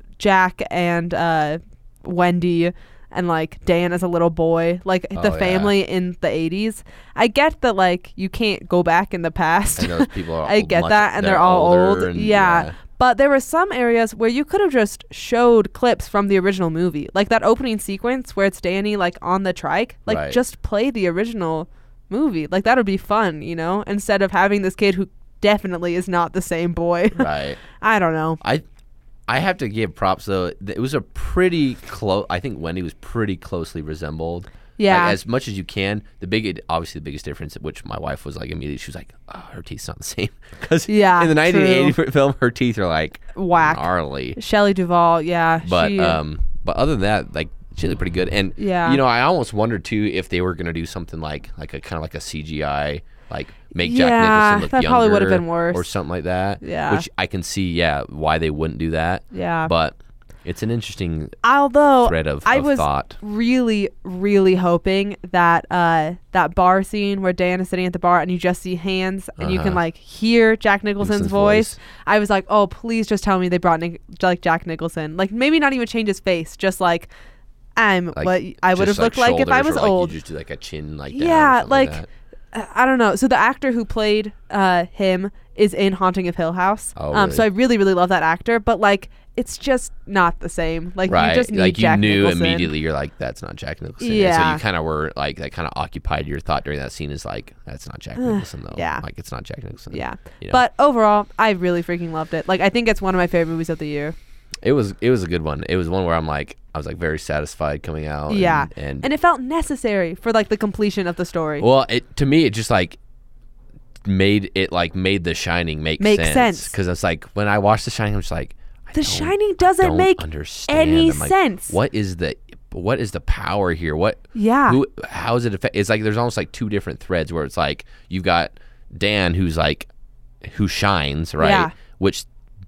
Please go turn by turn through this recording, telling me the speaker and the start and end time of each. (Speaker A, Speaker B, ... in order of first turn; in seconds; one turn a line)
Speaker A: 0.2-28.4
Speaker B: 5.1-5.7
Speaker B: 9.8-12.7
Speaker B: 20.1-20.4
Speaker B: 27.1-27.6
Speaker B: 29.3-44.4
Speaker A: 34.8-35.2
Speaker A: 40.9-42.0
Speaker A: 43.3-46.2
Speaker B: 45.6-61.4
Speaker A: 48.6-49.0
Speaker A: 53.8-55.8
Speaker A: 56.6-57.1
Speaker A: 59.3-59.7
Speaker A: 61.4-77.1
Speaker B: 62.0-63.2
Speaker B: 69.4-69.8
Speaker B: 71.0-71.8
Speaker A: 77.8-80.1
Speaker B: 78.1-82.1
Speaker A: 81.1-92.7
Speaker B: 87.0-87.4
Speaker B: 91.1-100.6
Speaker A: 94.0-94.6
Speaker A: 98.2-99.0
Speaker A: 99.9-104.1
Speaker B: 104.6-109.1
Speaker A: 108.3-111.6
Speaker B: 111.6-113.0
Speaker B: 114.0-129.9
Speaker A: 116.0-116.7
Speaker A: 118.9-121.8
Speaker A: 124.3-124.8
Speaker B: 130.4-132.3
Speaker A: 131.4-131.7